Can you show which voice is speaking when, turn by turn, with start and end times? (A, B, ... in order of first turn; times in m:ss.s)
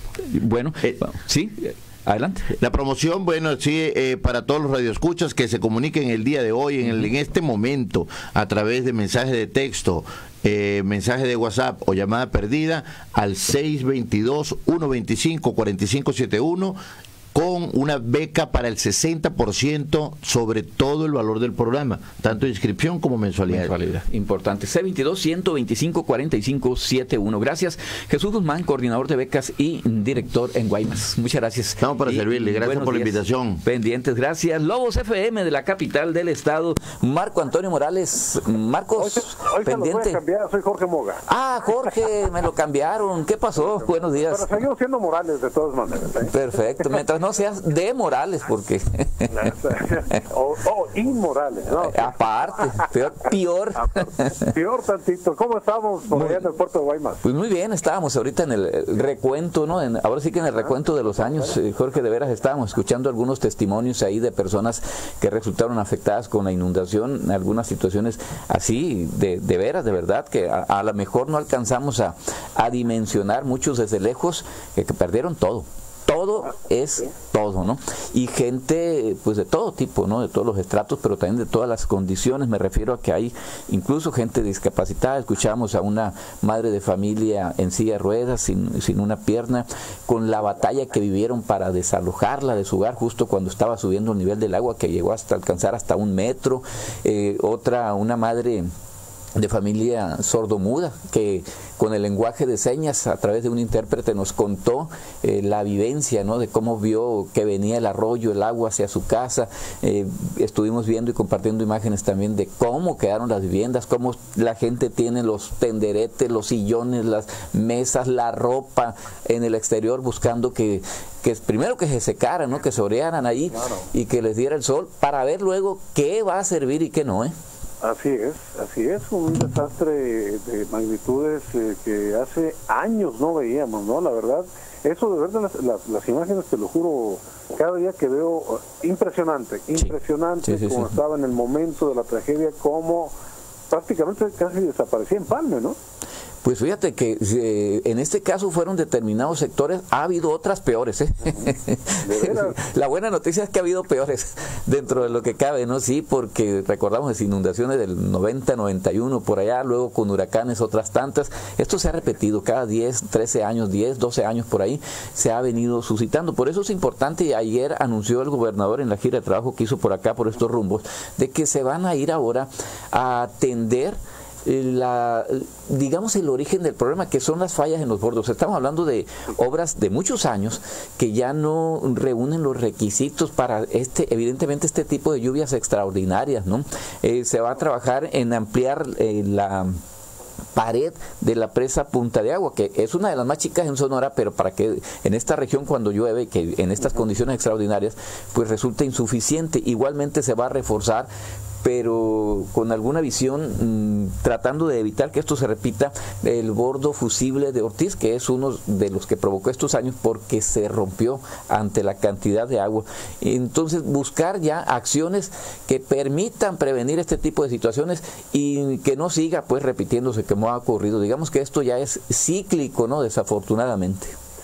0:00.3-0:02.5 A
0:02.6-0:16.8 B
0:17.3-0:23.7 B
0:23.5-0:40.2 A
0:31.8-0:33.6 B
0:39.0-0:41.2 C
0:41.3-0:44.5 A
0:43.6-0:47.0 C
0:46.3-0:49.3 A
0:49.3-0:52.9 C
0:51.7-0:54.4 A
0:53.8-0:57.2 C
0:56.1-0:56.5 A
0:57.2-1:38.7 A
1:39.4-2:07.3 A
2:07.8-2:23.1 C
2:19.8-2:20.9 A
2:23.7-2:25.8 C
2:26.4-3:09.8 A
2:32.0-2:32.6 C
3:10.6-3:21.1 A
3:21.6-3:44.1 A